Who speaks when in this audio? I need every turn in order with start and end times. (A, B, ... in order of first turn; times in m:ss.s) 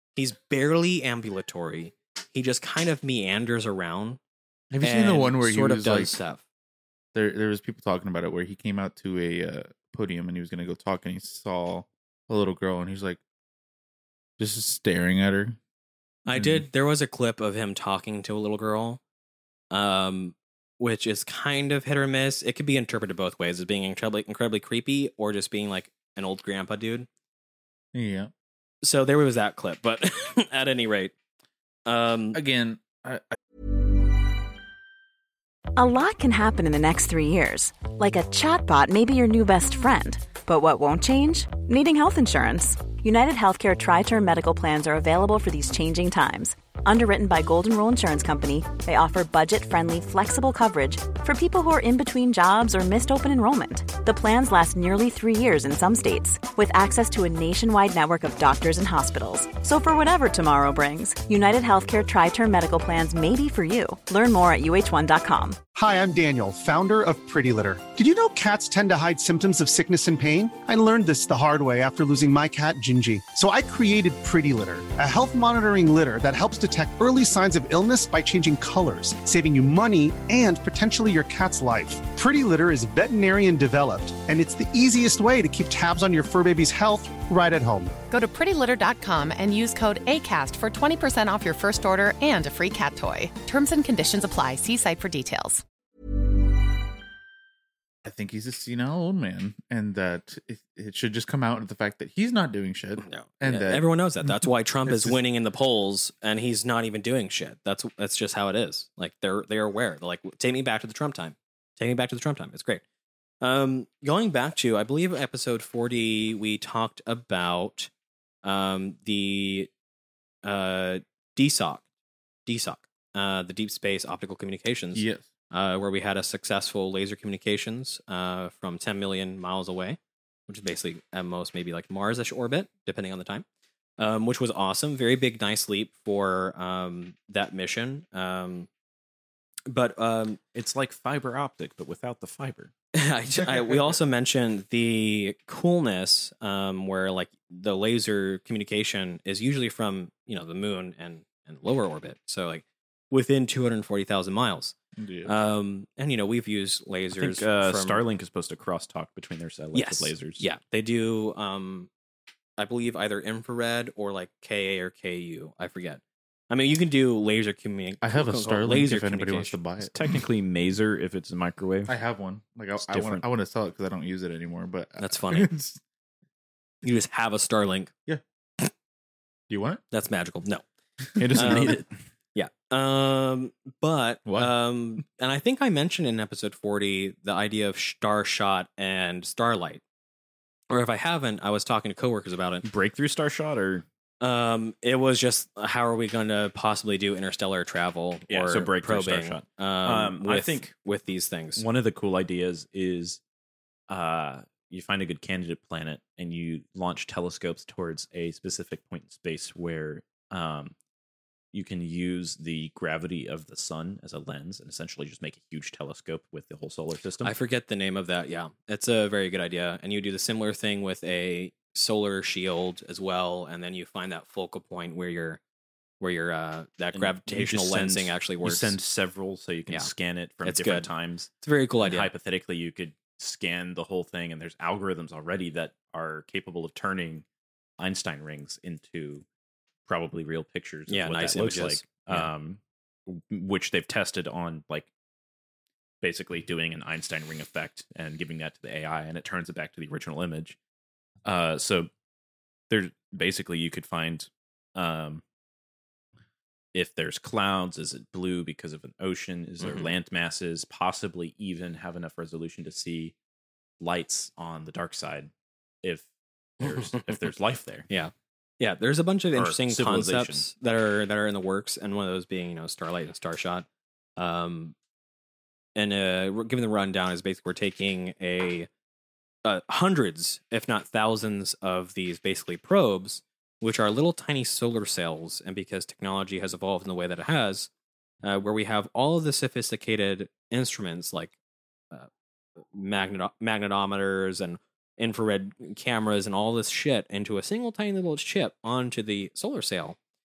0:00.2-0:04.2 A
0:04.7-0:06.2 B
0:04.8-0:06.4 A
0:07.1-0:13.2 B
0:14.4-0:15.6 B
0:16.2-0:19.0 A
0:16.3-0:16.6 B
0:19.7-0:27.1 A
0:27.9-0:28.3 B
0:28.8-0:31.1 A
0:31.8-0:32.4 A
0:32.3-0:33.4 B
0:35.8-1:05.6 C
1:05.7-1:27.9 D
1:28.1-1:35.6 E
1:38.0-1:45.2 B
1:43.0-1:52.8 A
1:53.4-1:57.9 A
1:58.4-1:59.7 A
2:00.4-2:01.8 A
2:02.4-2:13.4 A
2:04.9-2:05.3 B
2:14.0-2:18.7 A
2:19.7-2:20.4 A
2:20.5-2:22.7 F
2:23.0-2:34.7 A
2:35.0-2:35.3 B
2:35.2-2:38.0 A
2:37.1-2:40.4 F
2:39.7-2:41.9 A
2:42.6-2:49.5 A
2:48.0-2:50.0 B
2:49.8-2:51.9 F
2:51.9-2:55.8 B
2:52.8-2:53.2 F
2:55.0-2:55.5 A
2:56.8-2:57.9 A
2:59.5-2:59.8 B
2:59.9-3:00.6 A
3:01.2-3:01.9 F
3:01.3-3:01.7 A
3:01.3-3:01.7 B
3:02.3-3:09.8 A
3:04.2-3:04.5 B
3:10.7-3:12.6 A
3:12.6-3:13.8 F
3:14.2-3:21.6 A
3:18.3-3:20.7 F
3:21.6-3:23.2 F
3:23.9-3:30.7 F
3:31.5-3:37.3 F
3:37.2-3:45.4 A
3:46.0-3:48.7 A
3:46.9-3:57.2 F
3:50.4-3:50.9 A
3:51.4-3:52.1 A
3:57.8-3:59.2 F
3:59.9-4:04.9 F
4:00.9-4:02.3 A
4:06.0-4:10.6 F
4:11.2-4:11.9 F
4:12.7-4:15.2 F
4:16.7-4:23.1 F
4:19.6-4:19.9 A
4:23.8-4:25.3 F
4:26.6-4:27.2 A
4:26.6-4:27.8 F
4:27.9-4:34.7 A
4:29.4-4:30.4 F
4:35.8-4:38.7 A
4:39.4-4:47.7 A
4:48.2-4:51.3 A
4:51.9-5:00.0 A